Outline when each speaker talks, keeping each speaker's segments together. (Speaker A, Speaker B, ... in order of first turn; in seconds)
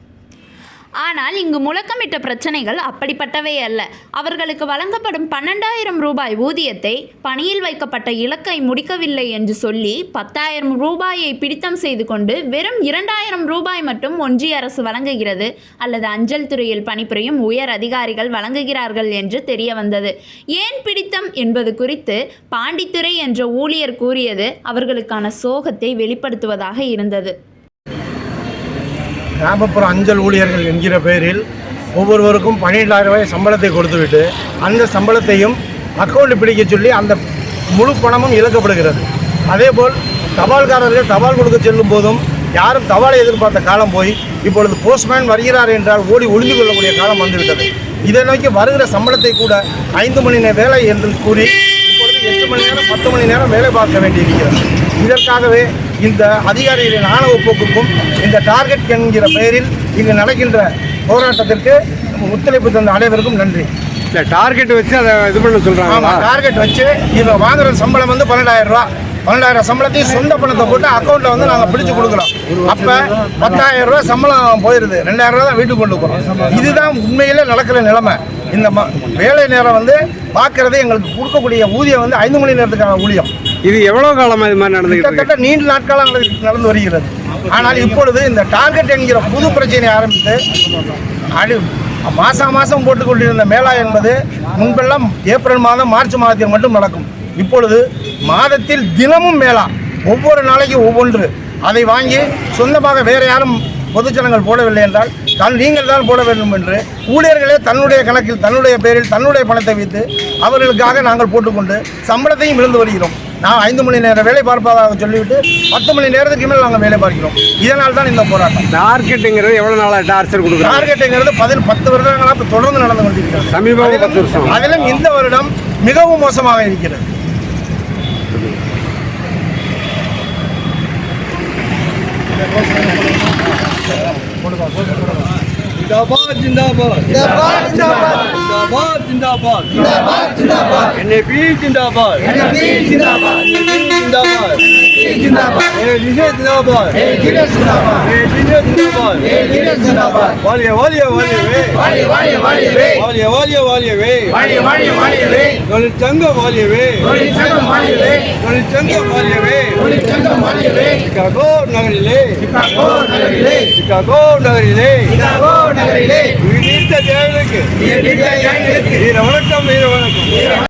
Speaker A: 1.0-27.4
Speaker B: 29.4-31.4, 31.9-37.2, 37.7-63.7, 65.9-83.3, 84.9-90.4, 91.3-118.7, 120.6-127.0
Speaker C: 64.1-66.3, 83.6-85.3, 118.7-120.9, 123.5-124.5, 137.2-138.4
Speaker D: 135.8-139.9, 140.9-144.6, 145.3-147.2, 148.0-152.2, 152.8-160.2, 161.0-170.5